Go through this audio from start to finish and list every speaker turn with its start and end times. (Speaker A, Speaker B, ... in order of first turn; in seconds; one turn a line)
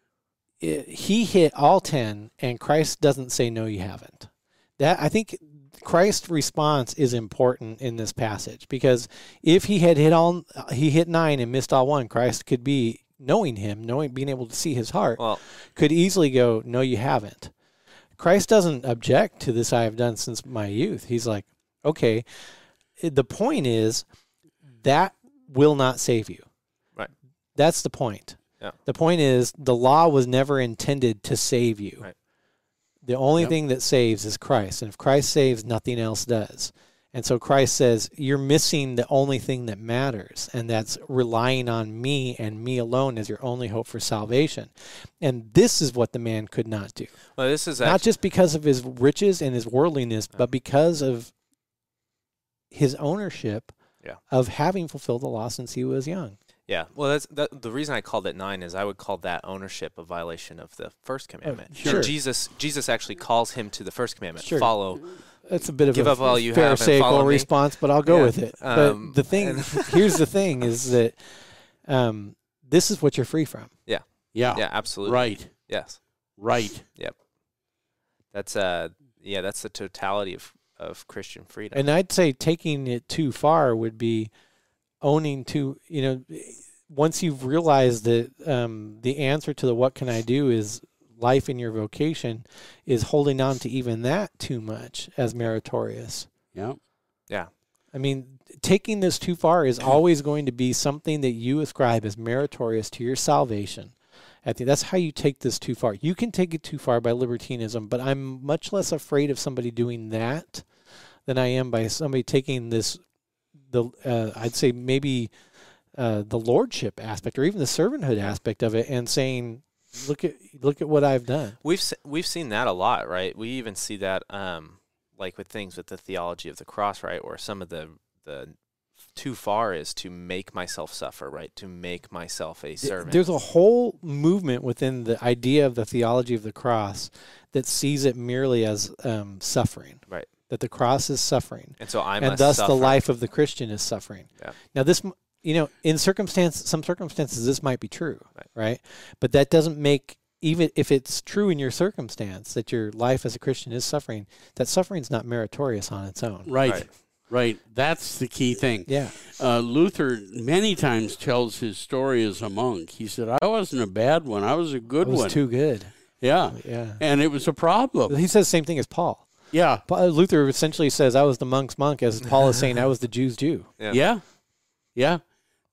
Speaker A: 0.6-17.5
Speaker A: 18.2-24.1
Speaker A: 24.8-26.5
Speaker A: 27.6-32.1
Speaker A: 33.0-47.2
Speaker B: 47.4-48.0
Speaker A: 47.8-51.3
Speaker A: 52.7-53.8
Speaker A: 54.3-56.4
Speaker B: 56.7-65.2
Speaker A: 61.5-62.1
Speaker C: 61.7-62.1
Speaker A: 64.4-73.7
Speaker B: 65.9-67.5
Speaker B: 68.0-70.2
Speaker B: 73.9-76.0
Speaker C: 74.3-75.7
Speaker C: 76.4-76.9
Speaker B: 78.3-81.8
Speaker A: 81.7-84.3
Speaker A: 85.0-96.3
Speaker A: 97.9-110.7
Speaker A: 111.3-113.0
Speaker A: 113.6-115.3
Speaker A: 115.9-121.6
Speaker B: 121.6-128.6
Speaker B: 129.1-133.2
Speaker A: 132.8-156.5
Speaker B: 141.8-143.0
Speaker C: 156.5-165.6
Speaker B: 156.6-156.9
Speaker A: 158.9-159.2
Speaker A: 165.0-167.0
Speaker C: 166.2-168.2
Speaker A: 168.1-173.7
Speaker C: 169.5-169.8
Speaker C: 173.9-174.2
Speaker C: 174.9-175.2